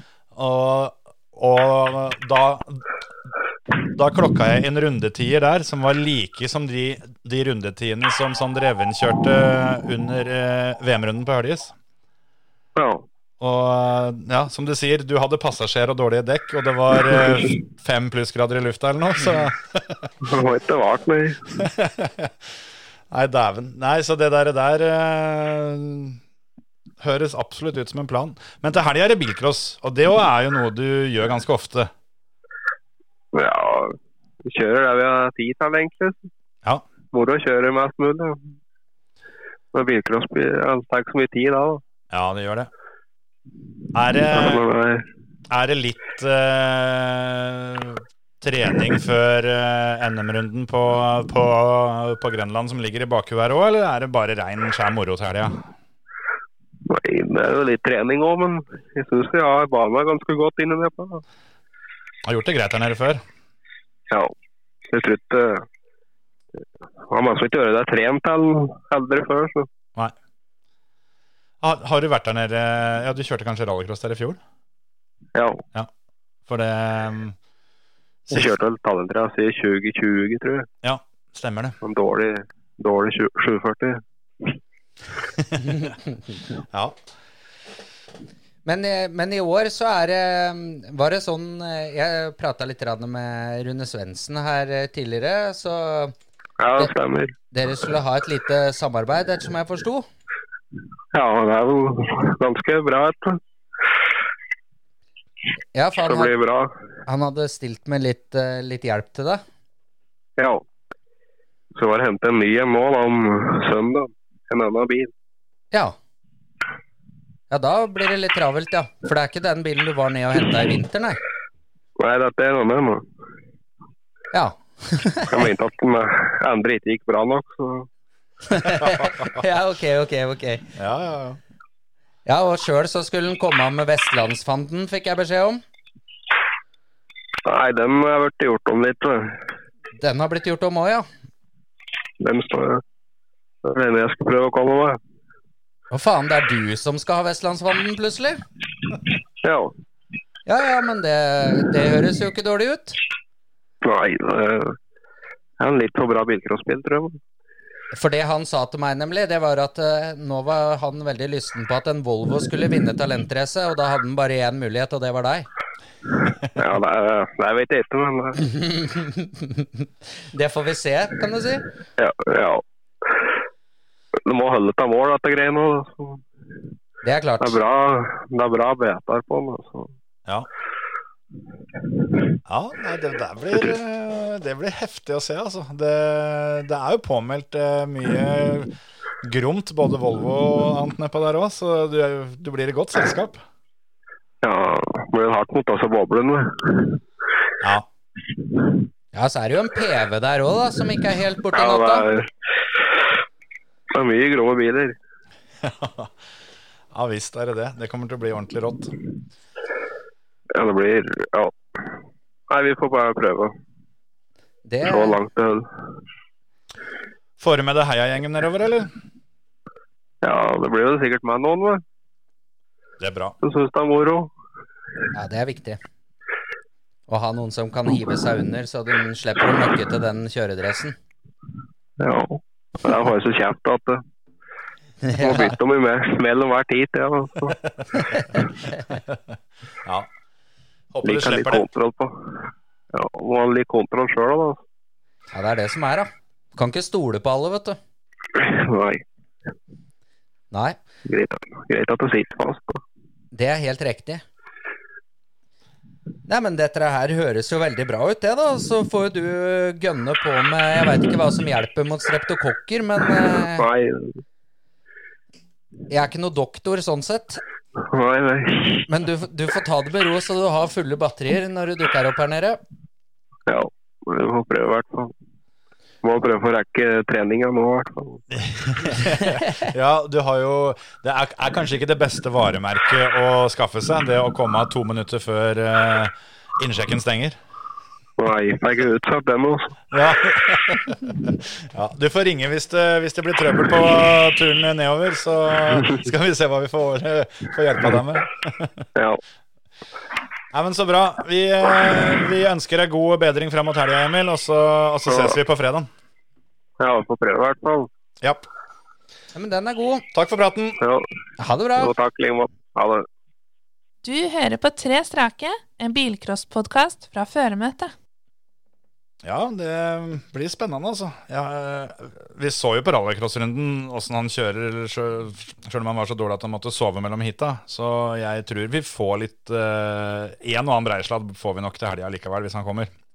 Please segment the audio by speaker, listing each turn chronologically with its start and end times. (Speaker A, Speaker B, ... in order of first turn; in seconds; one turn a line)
Speaker A: 0.3-2.8
Speaker A: 3.9-11.7
Speaker B: 12.8-13.1
Speaker A: 13.4-20.1
Speaker B: 20.2-21.4
Speaker A: 21.6-22.5
Speaker A: 23.1-26.2
Speaker A: 27.0-31.9
Speaker B: 33.3-36.3
Speaker B: 37.1-38.5
Speaker B: 39.7-41.8
Speaker A: 42.1-42.7
Speaker A: 43.9-44.6
Speaker B: 44.3-45.0
Speaker A: 45.5-55.6
Speaker B: 56.9-61.2
Speaker A: 62.2-63.2
Speaker B: 64.9-65.6
Speaker B: 67.1-69.7
Speaker A: 71.6-74.4
Speaker B: 75.3-75.6
Speaker A: 76.5-77.3
Speaker B: 78.3-80.7
Speaker A: 80.8-81.8
Speaker B: 81.8-84.5
Speaker A: 86.7-87.0
Speaker C: 88.7-96.1
Speaker B: 96.6-97.3
Speaker C: 97.5-100.0
Speaker B: 101.1-103.4
Speaker C: 105.7-106.3
Speaker B: 106.0-106.7
Speaker C: 107.0-109.4
Speaker B: 110.4-110.6
Speaker B: 111.7-115.1
Speaker C: 117.5-121.2
Speaker B: 122.0-123.0
Speaker C: 124.3-125.4
Speaker B: 125.3-127.9
Speaker C: 128.5-130.6
Speaker A: 128.8-129.3
Speaker A: 130.8-131.4
Speaker C: 132.2-135.6
Speaker B: 137.4-139.4
Speaker C: 140.0-141.0
Speaker B: 142.2-142.8
Speaker B: 143.6-145.0
Speaker C: 145.9-148.4
Speaker B: 149.4-149.7
Speaker C: 150.4-153.0
Speaker B: 153.8-154.8
Speaker B: 155.6-157.2
Speaker C: 157.9-165.5
Speaker B: 166.5-168.4
Speaker C: 168.4-171.6
Speaker B: 172.0-172.6
Speaker B: 174.2-176.2
Speaker C: 177.0-177.6
Speaker B: 177.4-179.9
Speaker A: 182.4-193.4
Speaker B: 194.4-197.0
Speaker A: 197.6-197.9
Speaker C: 199.1-202.1
Speaker B: 201.5-202.3
Speaker B: 203.9-204.9
Speaker A: 205.6-206.1
Speaker A: 206.9-208.9
Speaker B: 210.5-211.5
Speaker B: 212.5-213.5
Speaker C: 214.7-215.2
Speaker B: 214.8-215.7
Speaker A: 217.4-218.9
Speaker B: 220.2-221.8
Speaker A: 223.0-223.4
Speaker B: 223.4-224.3
Speaker C: 225.1-225.8
Speaker C: 227.1-230.9
Speaker B: 232.0-234.0
Speaker C: 235.0-235.5
Speaker B: 235.2-237.6
Speaker A: 239.8-240.1
Speaker A: 240.9-241.7
Speaker B: 241.0-242.4
Speaker B: 242.9-244.6
Speaker C: 245.3-247.8
Speaker B: 248.3-249.0
Speaker C: 250.5-250.8
Speaker B: 251.1-252.8
Speaker C: 253.3-254.2
Speaker C: 256.3-263.7
Speaker B: 263.5-264.2
Speaker C: 265.9-267.4
Speaker B: 267.8-268.9
Speaker C: 268.9-272.6
Speaker B: 273.5-275.1
Speaker B: 276.0-278.2
Speaker A: 278.3-287.4
Speaker C: 279.0-279.5
Speaker B: 288.2-289.8
Speaker A: 289.9-298.9
Speaker B: 298.9-299.2
Speaker A: 300.5-305.9
Speaker B: 305.1-305.4
Speaker B: 306.8-307.9
Speaker C: 309.3-310.1
Speaker A: 310.1-310.8
Speaker B: 310.8-311.1
Speaker C: 311.4-311.9
Speaker B: 311.8-313.1
Speaker D: 314.0-317.9
Speaker A: 319.2-332.9